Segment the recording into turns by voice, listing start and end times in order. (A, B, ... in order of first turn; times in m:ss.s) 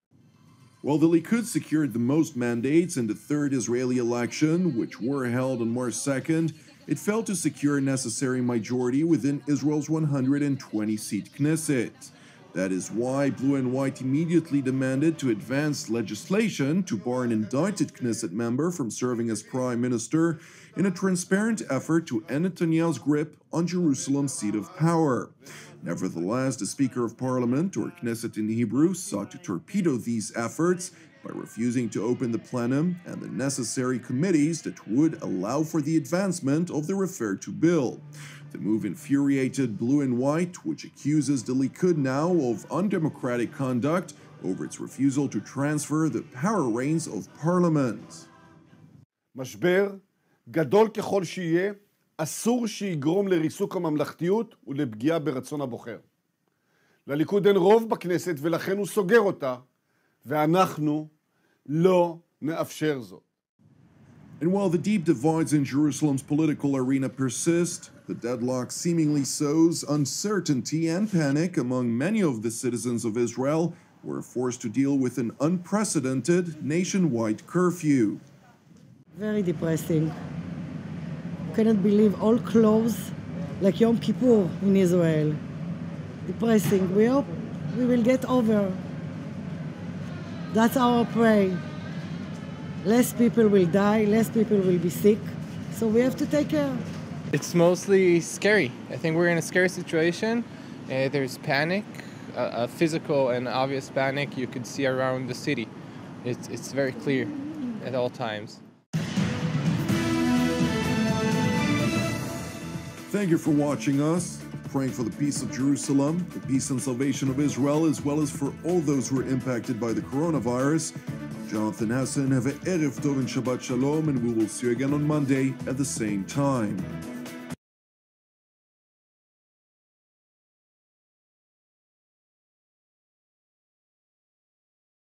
0:00.8-0:48.3 A
0:49.3-0:50.0 B
0:50.5-0:56.0 B
0:57.1-0:59.6 B
1:00.2-1:01.1 B
1:01.7-1:03.2 B
1:04.4-1:18.2 A
1:19.1-1:20.2 C
1:21.5-1:25.4 C
1:26.2-1:28.8 C
1:30.5-1:31.6 C
1:32.8-1:36.8 C
1:37.3-1:45.7 D
1:46.2-1:48.6 D
1:53.1-2:00.9 A
2:01.4-2:06.9 A